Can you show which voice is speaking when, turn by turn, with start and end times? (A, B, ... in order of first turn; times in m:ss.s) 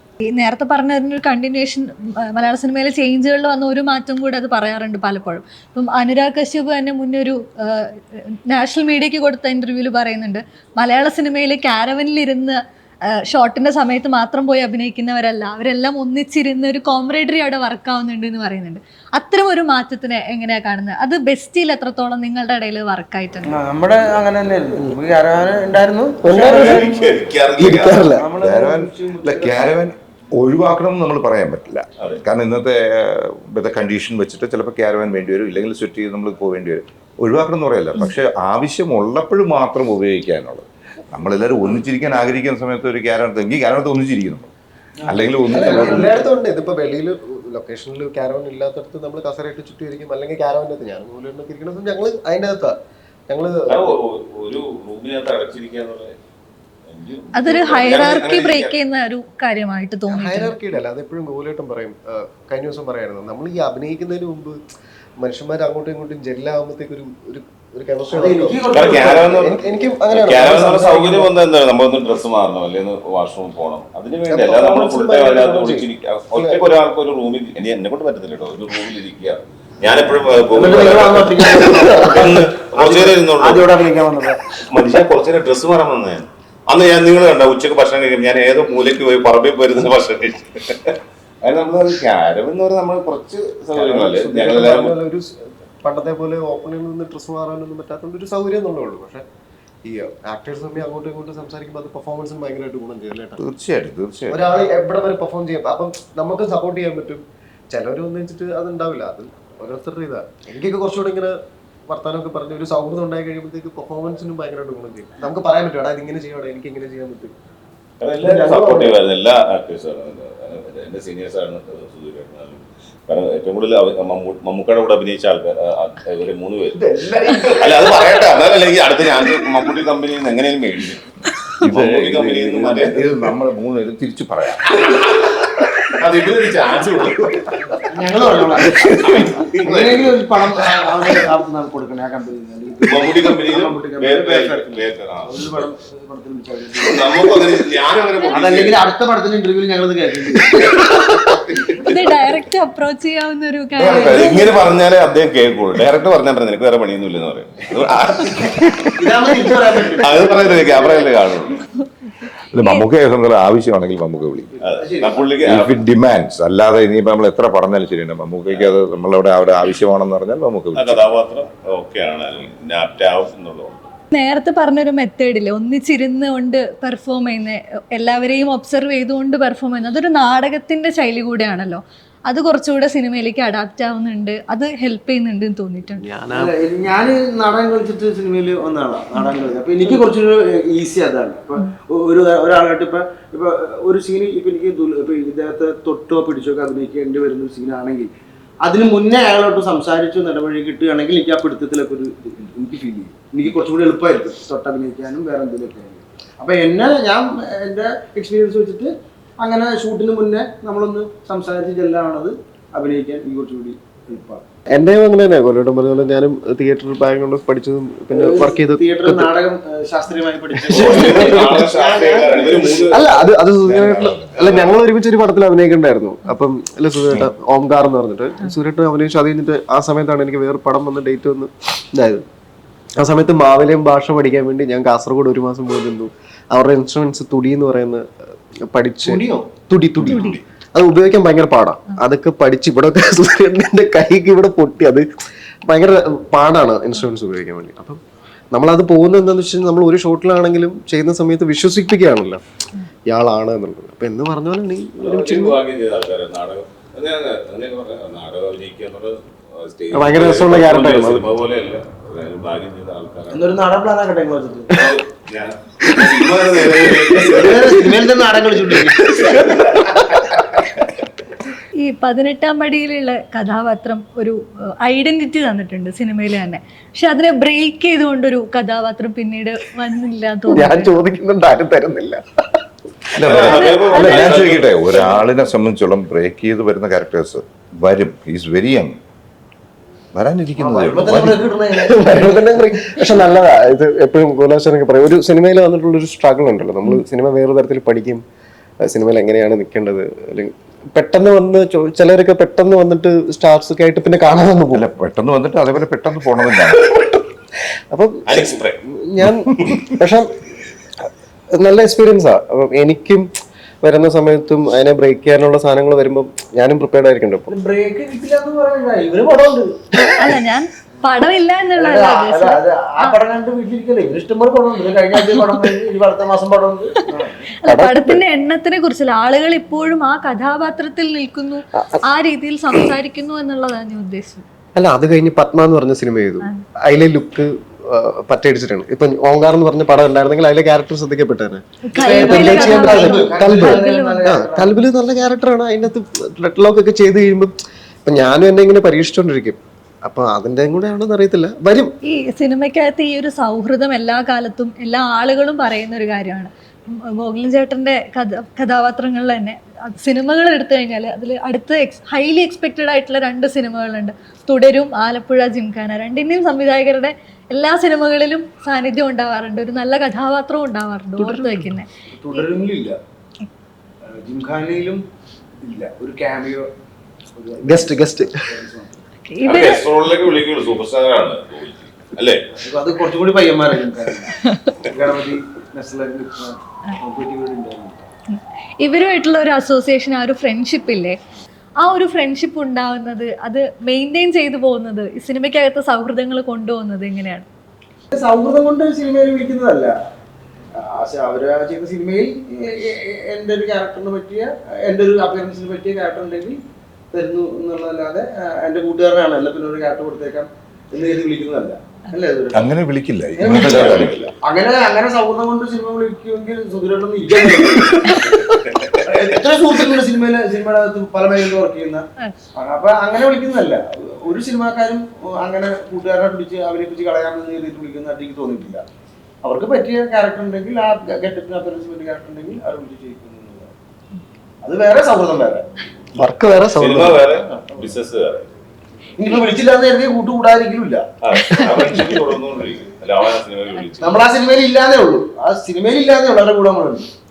0:00.2-0:23.6 A
0:23.4-0:26.4 B
0:26.2-0:28.3 C
0:26.2-0:28.1 D
0:28.1-0:29.8 B
0:28.4-0:44.5 E
0:45.0-0:46.3 B
0:45.1-0:46.2 E
0:45.5-0:52.8 C
0:53.3-0:53.9 C
0:53.7-0:56.2 D
0:56.9-0:58.7 D
0:57.3-1:00.5 A
1:00.1-1:04.6 C
1:05.2-1:11.3 C
1:08.1-1:09.5 B
1:08.7-1:23.7 D
1:14.3-1:16.6 C
1:20.5-1:24.5 B
1:21.7-1:22.2 C
1:24.6-1:35.0 D
1:33.7-1:39.2 C
1:39.8-1:43.4 C
1:43.4-1:44.4 E
1:44.3-1:51.4 C
1:51.9-1:57.3 C
1:58.0-2:06.8 D
1:58.2-1:58.9 C
2:06.9-2:08.1 E
2:07.4-2:11.0 D
2:11.6-2:14.6 E
2:11.6-2:13.1 D
2:14.6-2:20.9 D
2:17.9-2:18.9 B
2:19.6-2:27.5 B
2:22.8-2:25.7 D
2:26.8-2:28.8 D
2:28.3-2:30.9 B
2:30.6-2:31.9 D
2:31.7-2:34.5 A
2:33.8-2:38.9 D
2:33.8-2:34.4 E
2:38.9-2:41.1 B
2:39.9-2:41.7 D
2:42.5-2:44.5 E
2:44.6-2:45.8 D
2:44.6-2:45.3 B
2:45.4-2:51.0 E
2:48.5-2:48.7 D
2:50.7-2:53.9 D
2:54.1-3:06.1 A
3:06.0-3:06.5 C
3:06.3-3:34.4 B
3:34.7-3:39.3 C
3:38.1-3:43.0 B
3:40.6-3:41.7 C
3:40.7-3:43.3 D
3:42.9-3:52.2 C
3:43.6-3:44.6 E
3:53.0-3:58.1 C
3:58.7-4:05.1 C
3:59.0-3:59.5 B
4:00.0-4:00.4 A
4:05.6-4:08.0 C
4:08.5-4:12.4 C
4:13.1-4:15.6 C
4:15.0-4:23.6 D
4:19.9-4:21.2 C
4:23.3-4:24.9 B
4:24.7-4:27.9 D
4:27.2-4:29.5 B
4:28.8-4:29.9 D
4:31.8-4:40.9 A
4:40.5-4:43.3 C
4:43.1-4:49.0 E
4:43.2-4:45.2 D
4:43.4-4:44.3 A
4:50.1-4:51.5 E
4:50.6-4:52.5 B
4:51.7-4:58.2 C
4:58.8-5:04.8 C
5:04.7-5:06.9 E
5:07.9-5:10.4 C
5:08.2-5:08.8 D
5:11.5-5:13.3 C
5:13.8-5:17.5 C
5:17.5-5:20.2 B
5:20.1-5:23.2 A
5:21.7-5:27.5 B
5:27.6-5:34.4 A
5:27.6-5:28.2 C
5:34.8-5:47.5 C
5:41.8-5:44.4 A
5:41.9-5:44.8 B
5:48.0-5:51.9 C
5:52.0-6:11.9 A
6:11.2-6:11.7 C
6:12.1-6:13.0 B
6:14.1-6:15.0 B
6:15.6-6:16.7 B
6:17.3-6:19.0 B
6:17.6-6:18.4 C
6:19.3-6:19.8 A
6:19.4-6:22.5 D
6:22.5-6:28.1 B
6:28.3-6:31.2 A
6:31.8-6:37.5 A
6:38.1-6:40.0 B
6:40.7-6:46.6 B
6:47.1-6:52.7 B
6:52.5-6:54.2 E
6:53.4-6:58.2 B
6:53.4-6:54.3 D
6:57.7-6:59.1 D
6:59.0-7:08.8 B
7:09.4-7:13.7 B
7:14.6-7:15.7 B
7:16.2-7:17.2 C
7:16.7-7:18.5 D
7:17.6-7:17.9 B
7:19.2-7:21.7 B
7:21.2-7:24.3 D
7:24.0-7:27.1 B